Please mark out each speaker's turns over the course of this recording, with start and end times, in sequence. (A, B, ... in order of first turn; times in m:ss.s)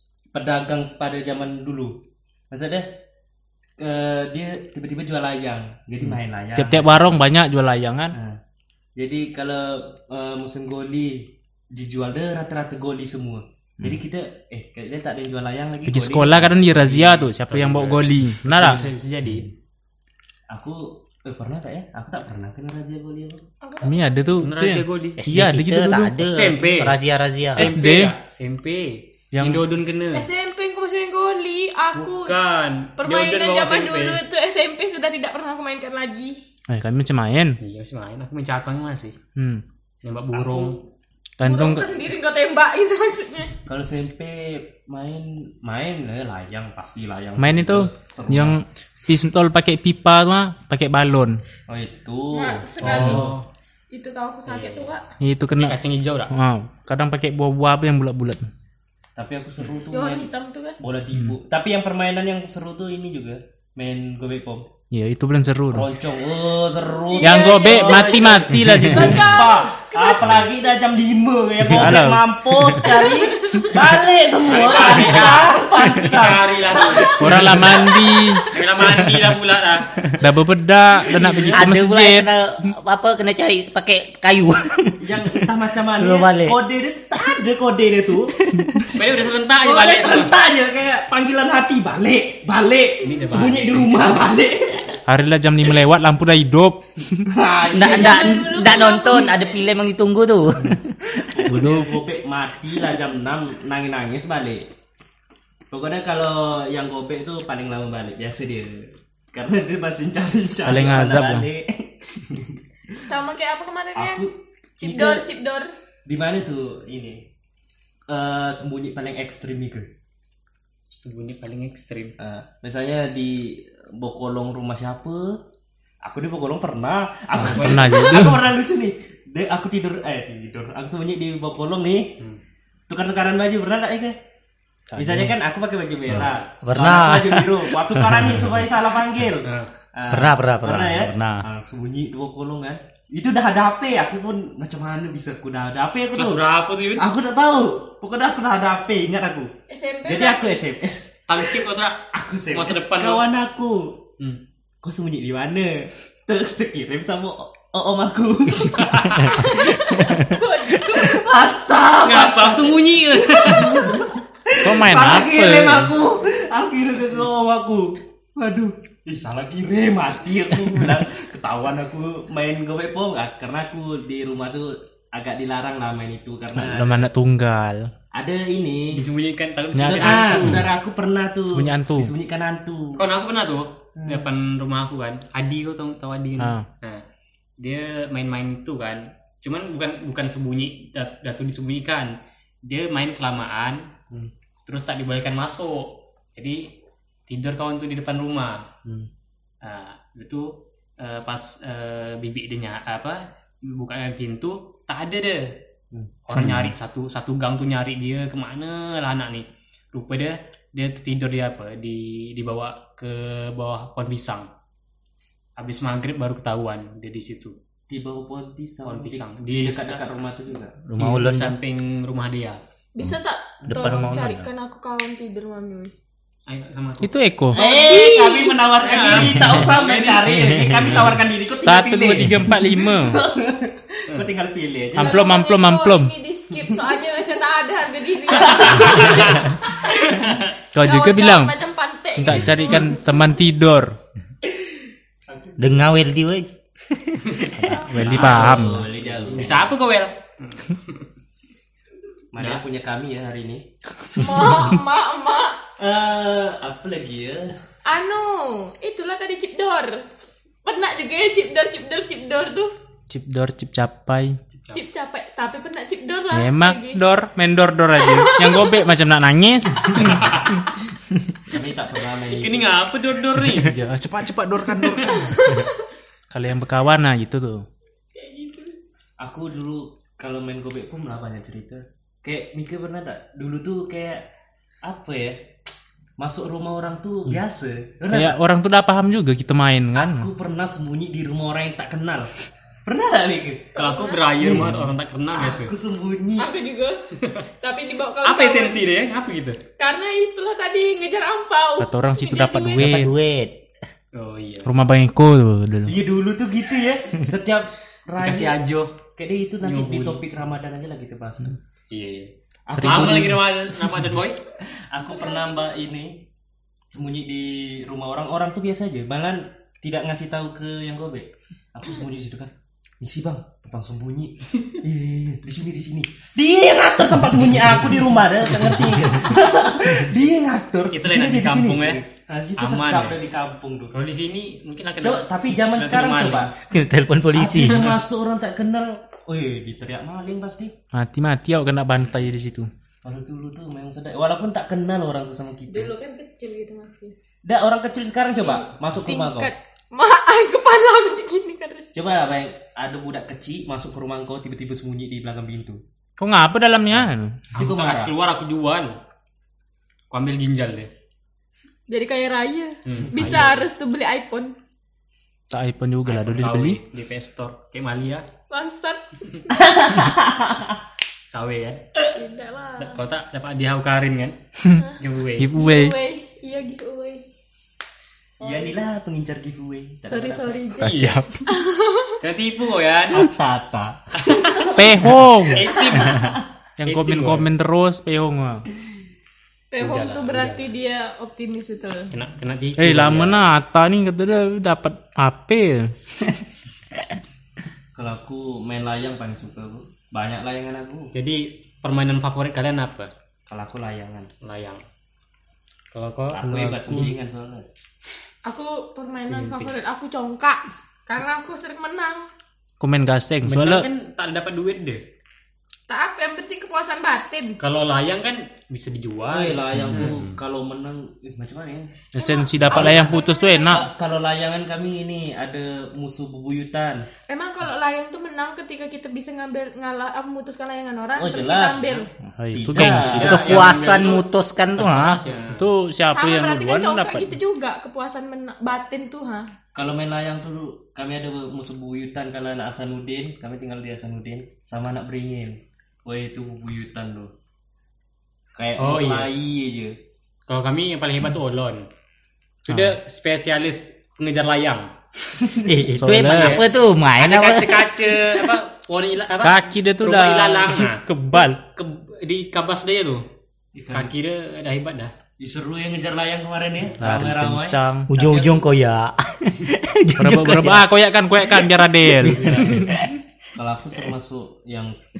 0:00.3-0:02.0 A
0:02.5-0:02.9 A
0:03.8-0:07.1 A
0:06.1-0:08.2 B
0:08.1-0:08.4 A
0:09.0-0:17.2 A
0:15.8-0:18.9 B
0:17.2-0:19.5 C
0:20.5-0:23.4 A
0:23.6-0:24.1 D
0:23.8-0:26.2 B
0:24.4-0:25.2 C
0:25.2-0:27.7 E
0:26.2-0:27.0 C
0:27.5-0:28.1 B
0:27.5-0:30.3 C
0:29.3-0:29.7 B
0:30.1-0:32.4 D
0:32.0-0:34.2 C
0:33.0-0:36.4 D
0:36.7-0:37.6 B
0:37.6-0:39.2 C
0:39.4-0:39.6 B
0:40.0-0:40.8 C
0:40.3-0:40.8 A
0:41.4-0:42.0 B
0:41.4-0:43.5 D
0:43.7-0:48.6 A
0:47.4-0:51.4 B
0:51.7-0:53.3 A
0:52.3-0:53.3 D
0:52.8-0:53.4 C
0:52.9-0:53.4 B
0:53.9-0:55.0 D
0:54.5-0:54.9 C
0:55.2-0:58.5 B
0:55.6-0:56.3 C
0:59.2-1:04.7 A
0:59.9-1:00.8 D
1:04.9-1:05.9 B
1:05.7-1:17.9 A
1:07.1-1:10.4 D
1:07.2-1:09.4 B
1:11.7-1:12.6 B
1:12.7-1:13.8 D
1:14.4-1:17.8 C
1:17.2-1:18.5 B
1:17.9-1:18.4 D
1:18.5-1:19.9 C
1:20.2-1:22.3 B
1:21.0-1:21.7 A
1:21.5-1:25.4 E
1:25.0-1:35.0 A
1:26.0-1:26.6 E
1:28.5-1:28.8 E
1:29.0-1:30.3 C
1:33.0-1:34.2 C
1:35.1-1:37.3 B
1:37.3-1:38.6 A
1:37.7-1:41.3 E
1:37.8-1:39.7 D
1:41.2-1:44.7 A
1:41.5-1:42.0 B
1:45.7-1:52.6 A
1:50.6-1:51.5 B
1:53.0-1:54.2 D
1:54.0-1:55.3 A
1:54.8-1:55.7 D
1:56.1-1:57.3 A
1:58.1-1:59.9 A
2:00.9-2:02.2 C
2:02.2-2:05.4 A
2:06.0-2:12.2 A
2:07.4-2:07.9 C
2:07.4-2:08.5 B
2:12.9-2:14.2 A
2:14.9-2:15.3 B
2:15.0-2:26.4 A
2:16.6-2:18.3 E
2:19.4-2:19.7 C
2:20.1-2:21.4 E
2:26.2-2:27.1 C
2:27.0-2:29.5 A
2:29.7-2:30.6 D
2:30.0-2:34.0 A
2:31.3-2:33.3 C
2:34.8-2:40.0 A
2:38.8-2:39.4 C
2:39.3-2:41.3 D
2:40.9-2:57.1 A
2:42.0-2:44.0 C
2:44.6-2:45.9 B
2:56.6-2:57.9 B
2:58.1-2:59.0 A
2:58.9-3:00.7 C
2:59.7-3:00.7 B
2:59.8-3:03.0 A
3:01.5-3:02.1 B
3:03.0-3:07.0 C
3:04.0-3:04.3 A
3:06.4-3:06.6 B
3:07.6-3:13.9 C
3:14.7-3:16.7 C
3:17.3-3:18.7 C
3:19.6-3:25.6 C
3:26.3-3:34.5 C
3:26.3-3:26.7 E
3:35.6-3:37.6 C
3:37.9-3:40.8 A
3:38.8-3:40.0 C
3:40.8-3:41.6 E
3:41.0-3:42.6 C
3:43.0-3:45.9 D
3:43.7-3:44.4 E
3:46.5-3:47.1 C
3:47.0-3:47.6 B
3:47.5-3:48.7 D
3:47.5-3:55.2 A
3:48.8-3:50.3 C
3:50.4-3:51.0 E
3:51.6-3:53.2 B
3:55.0-3:56.1 B
3:55.0-4:03.0 D
3:58.4-3:59.5 C
4:00.7-4:01.6 B
4:02.2-4:04.0 B
4:05.6-4:07.6 E
4:07.3-4:11.0 C
4:07.6-4:08.9 B
4:08.0-4:09.8 A
4:12.3-4:13.7 A
4:12.4-4:12.6 C
4:14.2-4:15.6 D
4:15.8-4:17.6 A
4:17.9-4:20.1 D
4:20.6-4:22.7 D
4:23.1-4:24.4 B
4:24.7-4:27.0 D
4:26.3-4:30.4 B
4:28.0-4:28.8 D
4:30.0-4:30.6 C
4:31.5-4:32.7 A
4:32.3-4:33.8 C
4:33.6-4:35.6 B
4:35.1-4:35.8 D
4:36.3-4:37.6 B
4:38.1-4:38.8 D
4:39.2-4:44.2 A
4:44.8-4:45.5 A
4:46.2-4:48.4 A
4:48.1-4:50.3 B
4:50.0-4:52.3 A
4:52.8-4:53.8 A
4:53.8-4:54.3 D
4:53.8-4:55.7 C
4:54.4-4:56.5 A
4:56.4-4:57.0 D
4:57.6-4:58.8 D
4:58.2-4:59.6 C
4:59.8-5:02.9 D
5:01.8-5:03.1 B
5:02.8-5:03.5 E
5:04.1-5:04.7 C
5:04.6-5:06.0 B
5:05.9-5:08.6 A
5:08.2-5:09.0 C
5:09.2-5:11.6 A
5:09.6-5:10.2 C
5:11.9-5:14.4 C
5:12.7-5:13.4 A
5:12.7-5:13.4 B
5:14.9-5:16.2 A
5:15.1-5:15.7 D
5:16.9-5:34.0 A
5:30.9-5:32.0 C
5:32.6-5:33.2 C
5:33.9-5:36.5 C
5:35.0-5:36.5 A
5:36.6-5:38.0 E
5:37.4-5:40.7 A
5:40.9-5:42.7 B
5:43.0-5:45.9 A
5:45.7-5:47.2 D
5:47.4-5:49.5 A
5:48.5-5:51.9 D
5:51.9-5:55.8 A
5:56.2-5:57.4 B
5:57.5-5:59.0 C
5:57.5-5:58.1 A
6:00.1-6:00.9 C
6:01.9-6:04.5 D
6:02.9-6:03.7 C
6:05.5-6:06.8 B
6:06.1-6:08.2 C
6:08.5-6:09.5 D
6:09.5-6:10.8 A
6:11.3-6:11.9 C
6:12.1-6:13.0 D
6:12.8-6:14.4 C
6:15.0-6:15.5 C
6:15.4-6:16.0 B
6:15.6-6:17.2 D
6:18.4-6:18.8 D
6:18.4-6:20.6 A
6:20.1-6:22.2 D
6:20.8-6:21.5 B
6:20.8-6:21.2 C
6:22.2-6:23.3 C
6:23.1-6:25.1 A
6:24.7-6:25.8 B
6:25.4-6:27.5 C
6:25.8-6:26.4 A
6:26.8-6:28.7 B
6:29.7-6:32.1 D
6:29.8-6:30.7 C
6:32.1-6:33.5 C
6:32.8-6:36.3 B
6:38.0-6:41.1 A
6:41.1-6:43.1 C
6:43.5-6:44.3 A
6:44.4-6:44.8 C
6:45.9-6:47.1 C
6:46.3-6:47.7 A
6:46.4-6:47.1 B
6:48.4-6:52.3 D
6:49.3-6:49.7 C
6:52.8-6:53.9 B
6:53.4-6:55.0 C
6:55.9-6:57.6 D
6:57.6-7:00.4 C
6:59.3-7:01.9 A
6:59.8-7:00.2 B
7:02.1-7:03.9 B
7:02.2-7:03.8 D
7:02.7-7:03.1 A
7:03.7-7:07.1 A
7:07.3-7:12.1 D
7:11.2-7:13.8 A
7:12.4-7:13.6 B
7:12.8-7:15.2 E
7:13.0-7:15.7 C
7:15.5-7:17.3 B
7:16.1-7:19.5 D
7:19.8-7:27.3 A
7:28.6-7:30.0 A
7:28.8-7:29.3 C
7:30.5-7:31.9 C
7:32.7-7:34.9 C
7:32.7-7:33.0 B
7:35.3-7:35.8 A
7:35.6-7:37.9 E
7:36.0-7:36.6 B
7:36.2-7:36.6 C
7:37.2-7:43.2 C
7:39.4-7:41.6 B
7:43.8-7:44.1 A
7:43.9-7:45.1 C
7:45.4-7:48.7 A
7:47.0-7:48.1 B
7:48.1-7:50.8 E
7:50.2-7:53.0 B
7:51.6-7:53.2 E
7:52.3-7:52.8 C
7:53.6-7:55.0 A